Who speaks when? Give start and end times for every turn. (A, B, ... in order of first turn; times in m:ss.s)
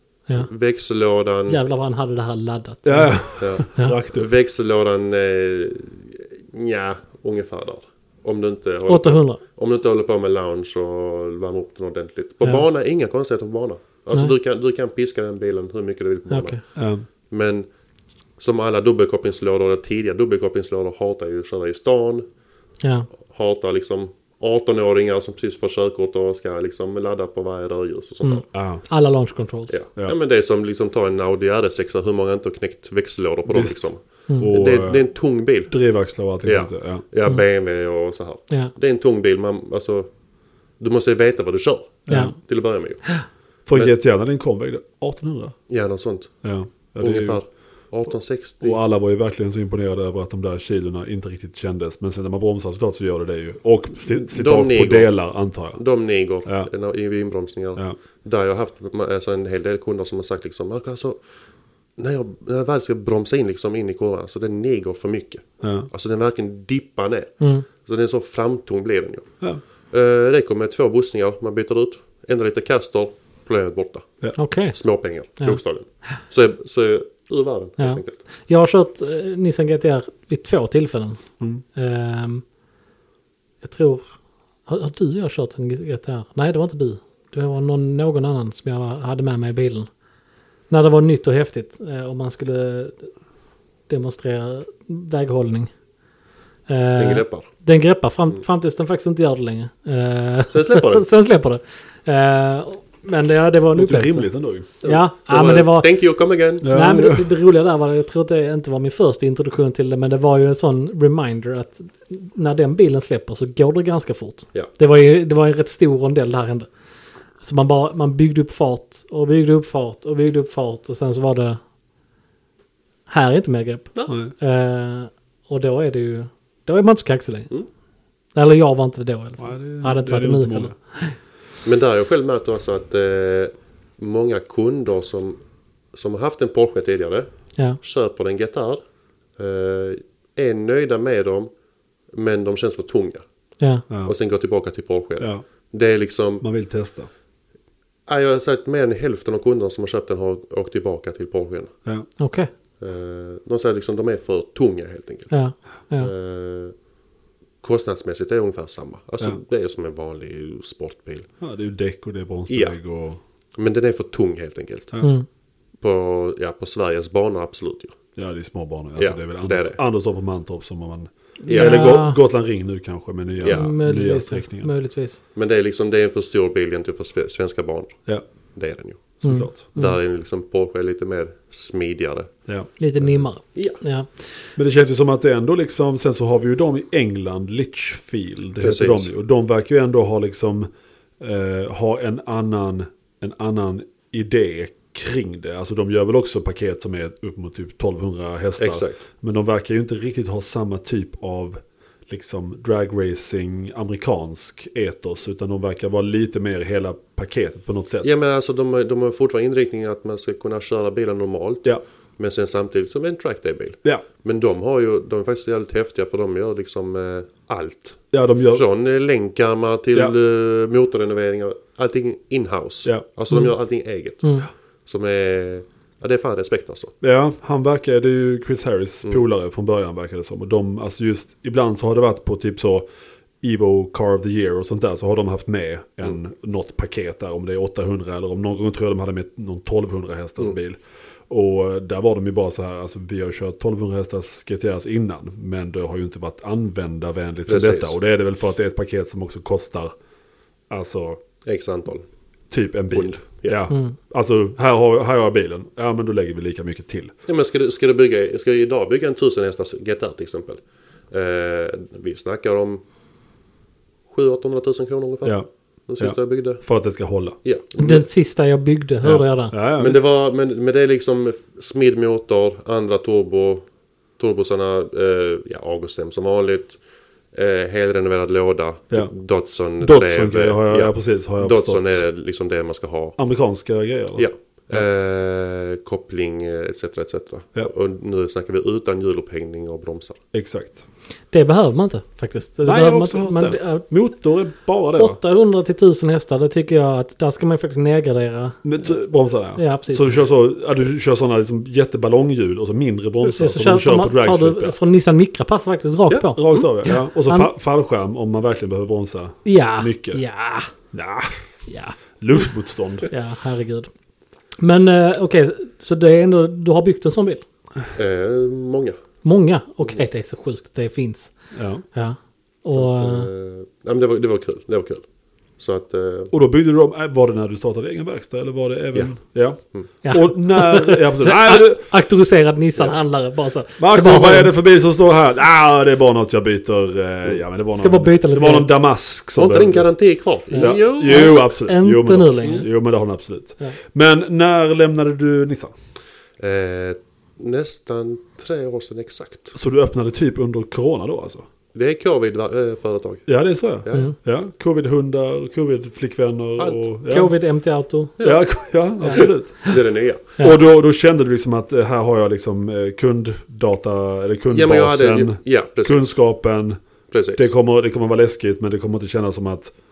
0:00.4-0:01.6 A
0:01.5-0:04.0 B
0:02.8-0:04.3 C
0:03.4-0:16.8 A
0:08.9-0:09.4 B
0:16.3-0:16.6 B
0:16.8-0:17.0 C
0:17.3-0:17.7 A
0:18.4-0:22.2 A
0:22.8-0:23.1 B
0:23.3-0:28.4 A
0:28.2-0:29.7 B
0:28.5-0:28.8 C
0:29.7-0:35.8 A
0:33.5-0:35.0 C
0:35.7-0:37.0 C
0:36.4-0:40.1 A
0:40.8-0:43.2 A
0:42.1-0:42.4 C
0:42.1-0:42.3 B
0:43.7-0:45.5 C
0:45.7-0:46.3 A
0:46.4-0:47.4 C
0:47.0-0:48.8 A
0:48.6-0:55.8 C
0:54.2-1:01.2 A
0:56.4-0:56.7 C
1:02.0-1:09.3 A
1:05.6-1:05.9 C
1:07.4-1:07.6 B
1:09.9-1:18.2 A
1:14.4-1:14.7 B
1:17.8-1:21.2 B
1:21.7-1:22.4 B
1:23.6-1:24.1 B
1:24.6-1:29.9 B
1:30.7-1:33.1 B
1:33.9-1:35.7 B
1:36.7-1:44.3 B
1:37.0-1:37.5 A
1:40.5-1:41.1 A
1:43.7-1:44.7 C
1:44.8-1:45.9 B
1:44.8-1:46.7 A
1:46.6-1:47.3 C
1:46.6-1:56.7 B
1:57.4-2:01.6 B
2:03.1-2:07.5 B
2:04.1-2:04.3 C
2:08.3-2:11.2 B
2:09.4-2:10.7 C
2:11.6-2:15.4 A
2:15.9-2:18.8 A
2:19.4-2:21.5 A
2:22.1-2:23.2 A
2:23.6-2:23.8 B
2:24.0-2:26.4 A
2:25.2-2:25.4 C
2:26.4-2:27.1 C
2:28.1-2:31.7 A
2:32.2-2:32.5 B
2:32.8-2:35.3 A
2:35.3-2:36.1 B
2:36.0-2:36.7 A
2:37.6-2:41.3 A
2:41.4-2:43.2 C
2:42.5-2:42.7 A
2:43.6-2:45.0 A
2:45.8-2:47.9 A
2:48.2-2:54.7 C
2:49.0-2:49.8 A
2:51.4-2:52.2 B
2:51.5-2:51.9 A
2:53.4-2:53.7 A
2:53.4-2:55.2 B
2:55.3-2:58.0 A
2:58.5-3:02.3 A
2:59.2-2:59.6 C
2:59.2-3:00.0 B
3:02.8-3:04.1 B
3:03.4-3:03.8 A
3:04.6-3:10.7 C
3:08.6-3:09.1 A
3:11.2-3:28.1 C
3:18.6-3:19.0 A
3:28.0-3:44.3 A
3:38.1-3:38.6 C
3:44.2-3:44.5 B
3:44.8-3:46.9 A
3:47.0-3:52.8 C
3:53.4-4:09.9 C
4:07.5-4:07.9 A
4:10.7-4:11.2 C
4:11.4-4:12.0 A
4:12.5-4:17.1 C
4:12.9-4:13.6 A
4:17.3-4:22.8 A
4:24.1-4:26.6 A
4:26.0-4:27.4 C
4:27.4-4:28.0 A
4:27.8-4:29.5 B
4:29.0-4:30.0 C
4:29.8-4:33.6 A
4:34.2-4:36.8 A
4:37.3-4:43.2 A
4:39.8-4:42.0 C
4:43.2-4:44.8 C
4:44.2-4:50.2 A
4:50.3-4:50.8 C
4:51.3-4:53.9 B
4:52.6-4:55.2 C
4:55.0-4:58.9 B
4:58.6-5:04.8 C
4:59.6-5:00.2 B
5:03.3-5:07.5 B
5:06.1-5:06.7 A
5:06.3-5:10.2 C
5:09.4-5:10.7 B
5:10.9-5:11.6 C
5:11.7-5:12.5 B
5:12.2-5:13.1 C
5:13.1-5:13.9 B
5:14.6-5:17.4 B
5:17.9-5:19.0 A
5:19.2-5:21.4 B
5:21.5-5:21.8 C
5:21.9-5:23.3 B
5:22.7-5:25.0 A
5:25.6-5:26.3 A
5:26.3-5:31.8 C
5:30.0-5:34.5 B
5:33.8-5:39.9 C
5:37.7-5:38.7 B
5:39.4-5:41.4 A
5:40.5-5:42.7 B
5:40.5-5:45.7 C
5:46.4-5:49.5 A
5:49.5-5:51.5 C
5:51.7-5:54.1 A
5:53.3-5:57.3 C
5:56.6-5:56.8 A
5:57.1-5:58.1 B
5:58.2-5:58.4 A
5:58.2-5:59.8 C
5:59.1-6:00.3 A
6:00.4-6:06.8 C
6:04.5-6:06.1 A
6:07.1-6:07.5 A
6:07.3-6:09.7 C